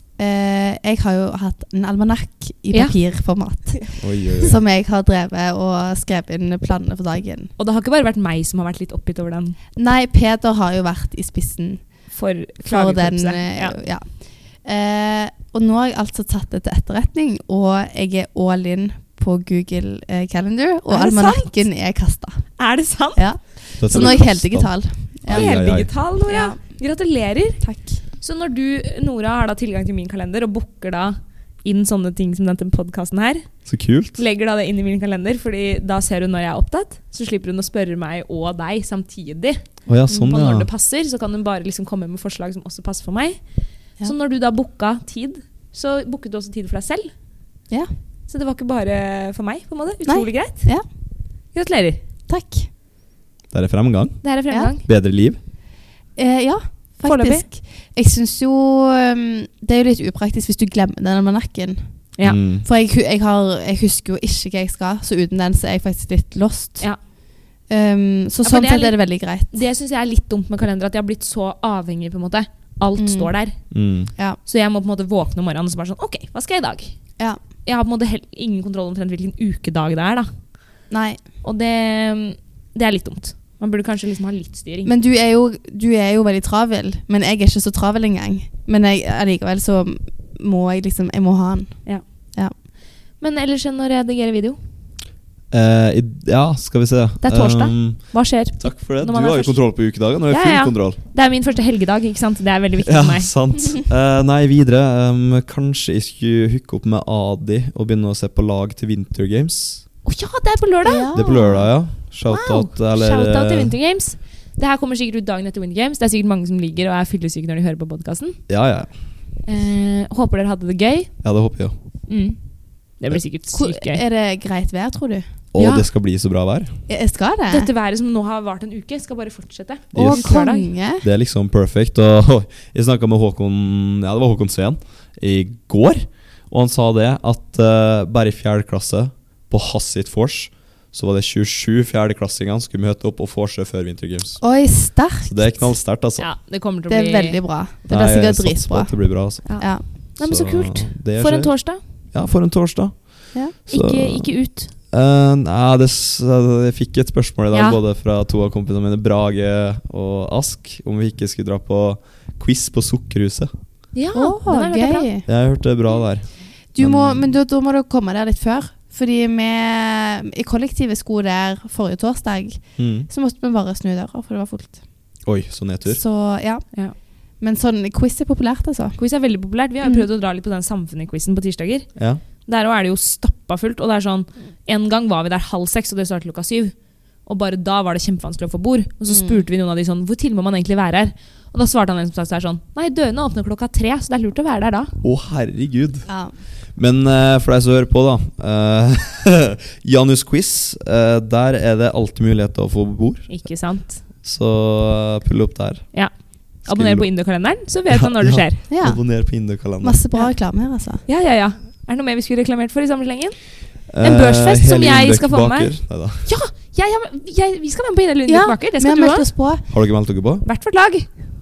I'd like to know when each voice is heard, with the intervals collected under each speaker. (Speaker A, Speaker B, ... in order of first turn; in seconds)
Speaker A: 0.2-7.5, 9.8-11.9, 12.6-22.6, 23.1-25.5, 26.2-26.8, 27.6-28.0, 50.1-50.8, 52.3-52.7, 56.2-67.1, 67.7-69.6, 73.0-73.3, 80.9-81.2, 84.8-92.5, 110.8-111.7, 123.5-125.2, 126.9-127.7, 129.9-131.1, 144.4-145.7, 146.9-149.9, 164.1-165.3, 166.7-174.8, 175.9-179.0, 179.8-180.1, 189.1-189.4, 196.1-196.3, 208.7-211.0, 218.3-219.7
Speaker B: 2.7-3.0, 7.6-9.6, 12.1-13.8, 20.9-21.6, 22.6-24.3, 25.3-33.5, 34.1-43.4, 44.0-47.1, 48.3-50.7, 51.5-52.0, 54.2-54.8, 57.0-57.5, 68.4-73.6, 74.5-77.0, 77.5-80.5, 81.4-84.9, 93.2-94.6, 97.2-103.3, 110.0-111.1, 112.3-118.4, 119.4-121.1, 122.1-124.0, 125.6-125.8, 127.5-130.7, 146.2-147.4, 149.4-151.8, 153.7-154.7, 157.5-157.8, 163.9-165.1, 179.0-194.9, 203.3-204.0, 205.9-208.6, 211.1-213.4, 214.0-219.3, 220.4-221.1
Speaker C: 4.0-4.6, 23.8-25.9, 33.7-34.2, 39.9-40.7, 53.5-55.4, 62.2-62.7, 73.7-74.1, 95.5-101.0, 102.8-109.9, 111.1-113.7, 118.5-118.9, 121.2-121.7, 125.5-126.7, 129.9-130.4, 131.0-144.4, 145.2-146.3, 147.9-163.5, 165.3-167.3, 172.8-173.1, 175.2-176.0, 182.0-182.2, 195.0-196.1, 196.8-203.4, 204.2-205.9, 206.6-207.1, 207.9-210.0, 213.9-216.3, 219.7-220.5